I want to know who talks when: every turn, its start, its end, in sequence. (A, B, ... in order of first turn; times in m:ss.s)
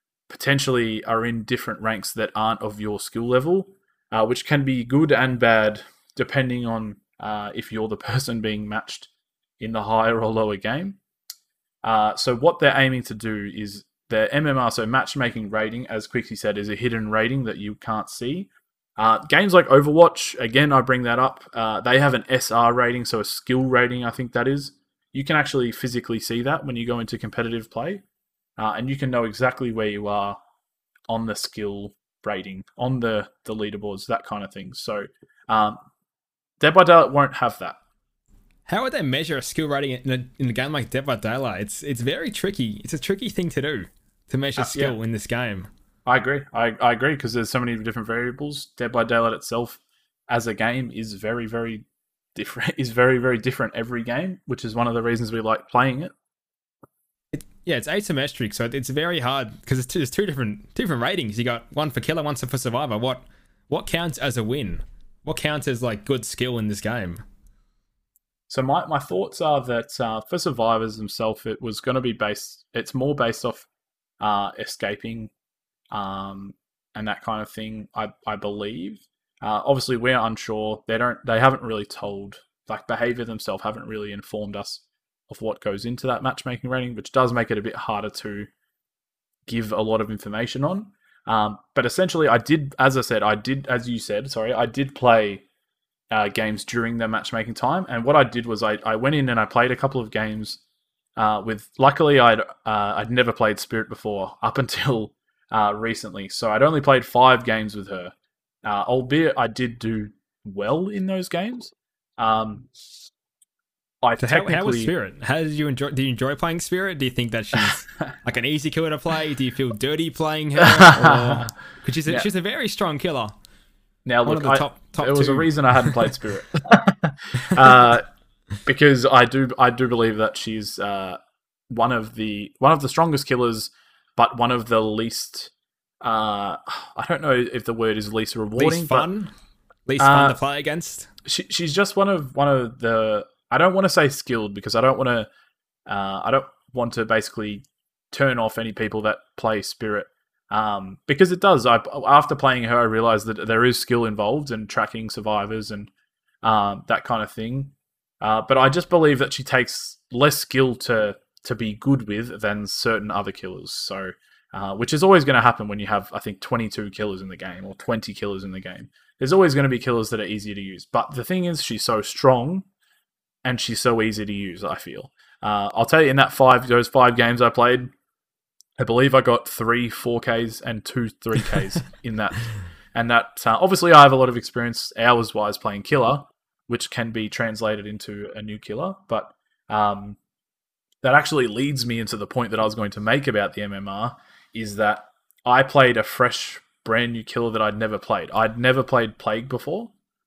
0:00.3-0:11.0 A
0:11.8-0:28.0 A
0:28.6-0:30.4 A
0:31.1-0:35.8 A
0:36.6-0:37.8 A
0:38.7-0:45.7 B
0:44.6-0:44.9 A
0:46.0-0:56.1 A
0:57.3-1:07.2 B
1:08.5-1:13.7 A
1:14.2-1:15.3 A
1:15.9-1:28.5 A
1:29.4-1:35.4 A
1:36.1-1:40.6 A
1:41.2-1:52.9 A
1:54.0-1:54.9 A
1:54.2-2:03.3 B
2:00.6-2:01.5 A
2:04.0-2:08.0 A
2:04.2-2:06.1 B
2:08.6-2:19.1 A
2:18.6-2:19.3 B
2:19.9-2:21.1 B
2:20.0-2:20.4 A
2:21.2-2:25.3 A
2:25.9-2:35.9 A
2:36.4-2:52.7 A
2:53.4-2:57.9 A
2:58.8-3:10.2 A
3:11.0-3:19.9 A